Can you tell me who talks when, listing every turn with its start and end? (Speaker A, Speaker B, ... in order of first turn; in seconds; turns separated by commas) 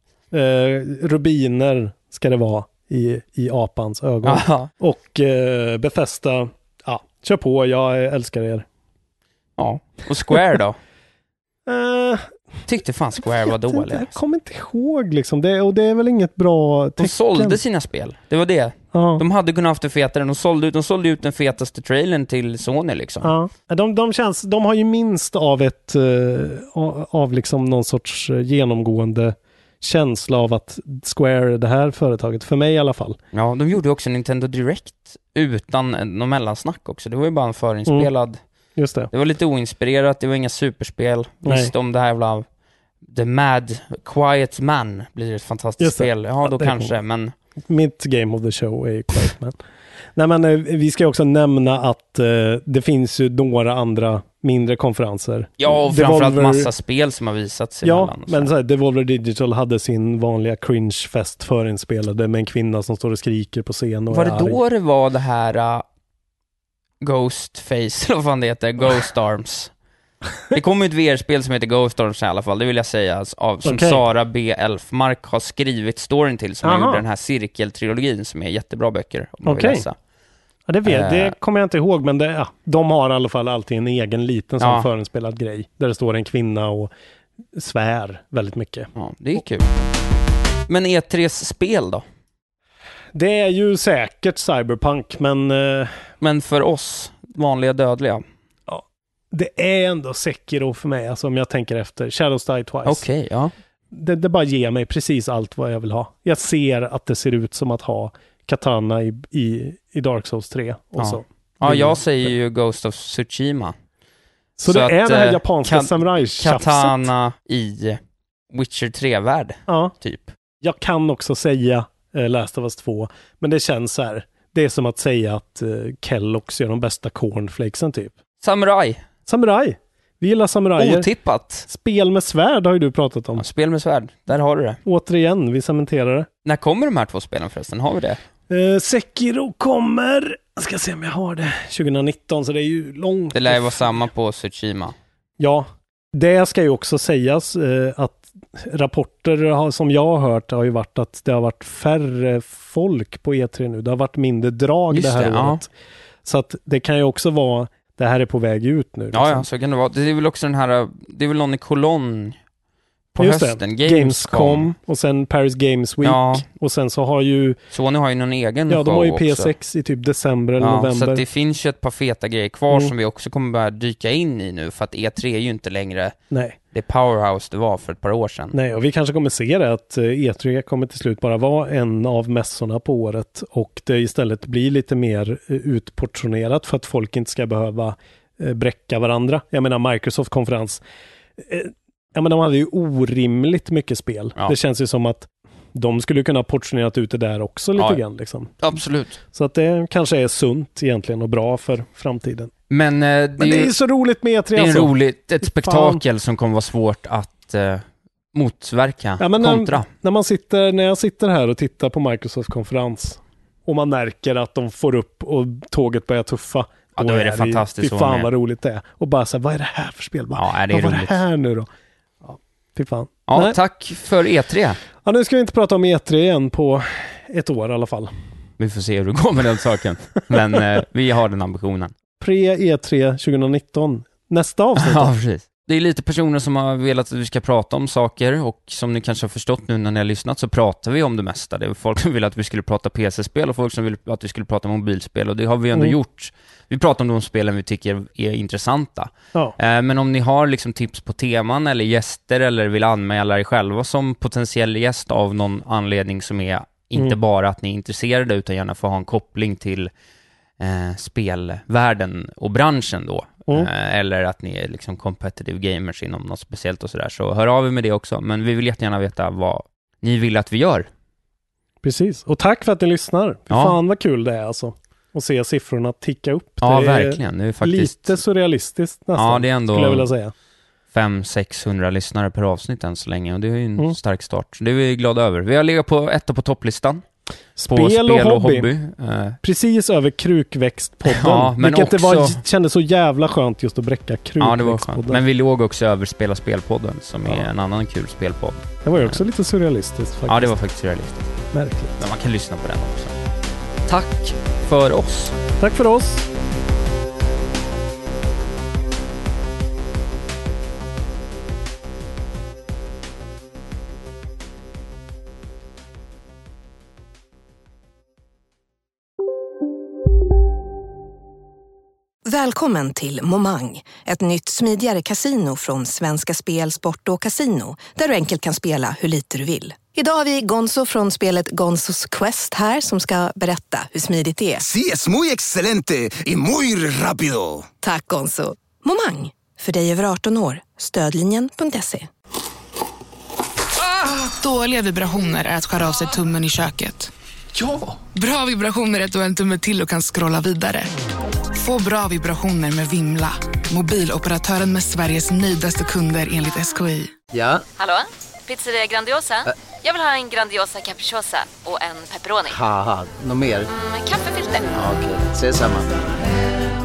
Speaker A: 0.3-8.7, Speaker B: 4.2-4.7, Speaker B: 9.6-10.8, Speaker A: 11.7-12.3, Speaker B: 12.7-14.2, Speaker A: 13.5-17.6, Speaker B: 17.0-23.3, Speaker A: 18.9-19.2, Speaker A: 23.2-33.2, Speaker B: 33.3-38.4, Speaker A: 38.8-39.1, Speaker B: 39.1-42.4, Speaker A: 41.4-41.7, Speaker B: 43.0-47.3, Speaker A: 45.8-46.9, Speaker A: 47.7-49.5, Speaker A: 50.1-56.7, Speaker B: 55.6-58.5, Speaker A: 57.8-64.6, Speaker B: 64.1-65.8, Speaker B: 67.0-69.7, Speaker B: 70.5-80.0, Speaker A: 73.6-74.0, Speaker A: 76.6-77.0, Speaker A: 79.4-79.8, Speaker A: 80.7-86.9, Speaker B: 80.8-81.3, Speaker B: 84.6-84.9, Speaker A: 87.5-88.9, Speaker B: 88.9-89.7, Speaker B: 90.7-92.0, Speaker A: 93.1-96.0, Speaker B: 96.2-98.2, Speaker A: 98.7-103.0, Speaker B: 102.8-103.5, Speaker A: 103.9-112.3, Speaker B: 111.0-113.7, Speaker A: 114.6-117.1, Speaker B: 114.6-118.0, Speaker B: 118.5-120.3, Speaker A: 119.7-119.9, Speaker A: 120.6-128.1, Speaker B: 128.4-129.0, Speaker A: 129.3-131.1, Speaker B: 130.8-131.7, Speaker A: 131.7-133.4, Speaker B: 133.3-134.8, Speaker A: 134.8-136.3, Speaker B: 136.4-138.2, Speaker A: 138.5-143.8, Speaker B: 143.3-144.9, Speaker A: 145.4-155.7, Speaker B: 154.9-155.6, Speaker A: 156.2-159.5, Speaker B: 159.1-162.3, Speaker B: 163.1-164.7, Speaker A: 163.2-167.6, Speaker B: 166.0-166.4, Speaker B: 167.7-169.5, Speaker A: 168.7-171.2, Speaker B: 170.6-176.1, Speaker A: 176.3-176.6, Speaker B: 176.7-178.6, Speaker A: 178.5-190.8, Speaker A: 191.4-198.5, Speaker B: 197.8-198.0, Speaker B: 198.6-199.2, Speaker A: 199.3-202.5, Speaker B: 202.7-203.7, Speaker A: 203.4-206.0, Speaker B: 204.5-209.9, Speaker A: 209.2-221.7, Speaker B: 217.0-218.3, Speaker B: 220.3-221.2, Speaker A: 222.2-223.6, Speaker B: 223.3-224.8, Speaker A: 225.0-228.1, Speaker B: 228.6-231.9, Speaker A: 232.2-235.1, Speaker B: 234.8-259.9, Speaker B: 260.6-270.9, Speaker A: 271.8-280.3, Speaker B: 273.5-273.8, Speaker B: 276.6-278.2, Speaker B: 279.1-280.1, Speaker B: 280.9-287.0, Speaker A: 287.6-288.6, Speaker B: 287.6-289.4, Speaker A: 289.4-295.2, Speaker B: 291.1-292.4, Speaker B: 294.4-299.2, Speaker A: 298.8-300.5, Speaker B: 300.3-301.4, Speaker A: 301.5-301.9, Speaker B: 302.0-303.1, Speaker B: 303.9-305.4, Speaker A: 305.6-306.3, Speaker C: 322.2-334.6, Speaker D: 334.6-337.7, Speaker C: 337.8-342.1, Speaker E: 344.0-347.1, Speaker E: 348.0-350.9, Speaker E: 351.5-357.2, Speaker F: 357.3-357.6, Speaker G: 357.8-362.6, Speaker F: 362.4-363.7, Speaker G: 363.7-364.7, Speaker F: 364.7-365.9